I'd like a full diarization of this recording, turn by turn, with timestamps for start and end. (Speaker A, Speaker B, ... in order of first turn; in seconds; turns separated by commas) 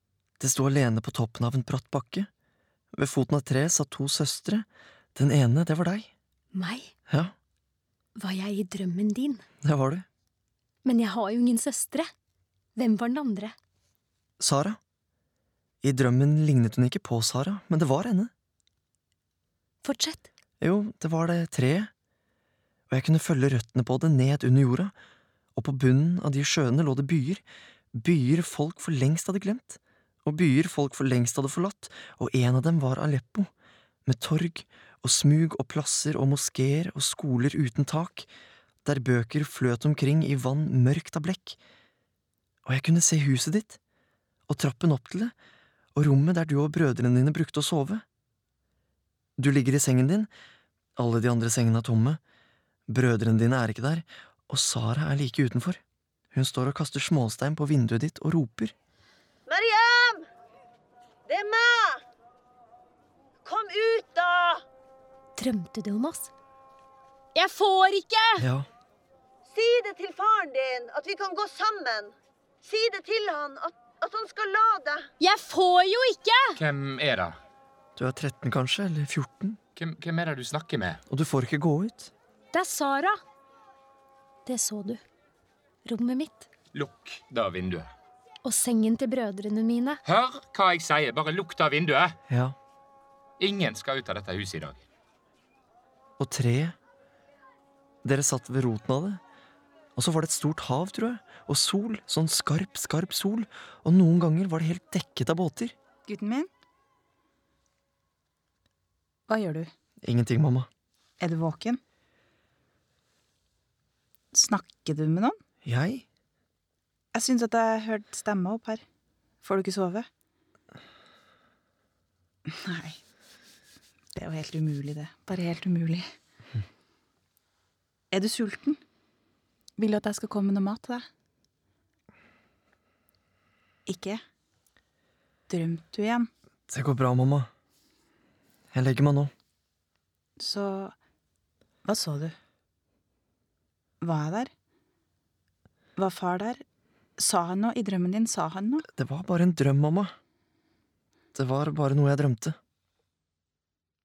Speaker A: 0.4-2.3, Speaker A: 2.9-6.1, Speaker B: 6.5-6.9, Speaker A: 7.1-7.3, Speaker B: 8.2-9.4, Speaker A: 9.6-10.1, Speaker B: 10.8-12.1, Speaker B: 12.8-13.5, Speaker A: 14.4-14.8, Speaker A: 15.8-18.3, Speaker B: 19.8-20.3, Speaker A: 20.6-21.9, Speaker A: 22.9-24.9, Speaker A: 25.6-27.4, Speaker A: 28.0-33.5, Speaker A: 34.0-38.3, Speaker A: 38.8-41.6, Speaker A: 42.6-43.8, Speaker A: 44.5-45.3, Speaker A: 45.9-48.0, Speaker A: 49.4-50.3, Speaker A: 51.0-52.2, Speaker A: 52.9-55.8, Speaker A: 56.3-58.7, Speaker C: 59.5-60.2, Speaker C: 61.3-62.0, Speaker C: 63.4-64.6, Speaker B: 65.3-66.3, Speaker B: 67.3-68.4, Speaker A: 68.4-68.7, Speaker C: 69.5-75.1, Speaker B: 75.2-76.6, Speaker D: 76.6-77.3, Speaker A: 78.0-79.6, Speaker D: 79.8-81.0, Speaker A: 81.1-82.1, Speaker B: 82.5-83.2, Speaker B: 84.5-85.0, Speaker B: 85.8-86.5, Speaker D: 86.7-87.9, Speaker B: 88.4-90.0, Speaker D: 90.0-92.2, Speaker A: 92.3-92.5, Speaker D: 93.4-94.8, Speaker A: 96.2-96.7, Speaker A: 98.0-99.2, Speaker A: 100.0-105.7, Speaker E: 106.1-106.5, Speaker E: 109.3-109.7, Speaker A: 110.0-110.7, Speaker E: 111.2-111.8, Speaker E: 114.3-115.3, Speaker A: 115.6-116.0, Speaker E: 117.1-118.8, Speaker E: 119.4-120.1, Speaker E: 122.5-123.0, Speaker E: 124.1-126.0, Speaker E: 128.1-128.8, Speaker E: 129.8-131.0, Speaker E: 133.9-134.2, Speaker E: 135.5-136.3, Speaker A: 136.7-137.5, Speaker A: 138.7-139.3, Speaker E: 140.4-140.9, Speaker E: 141.8-142.3, Speaker E: 144.0-144.5, Speaker E: 145.9-146.6, Speaker E: 147.2-148.8, Speaker A: 148.9-150.1, Speaker A: 151.3-152.6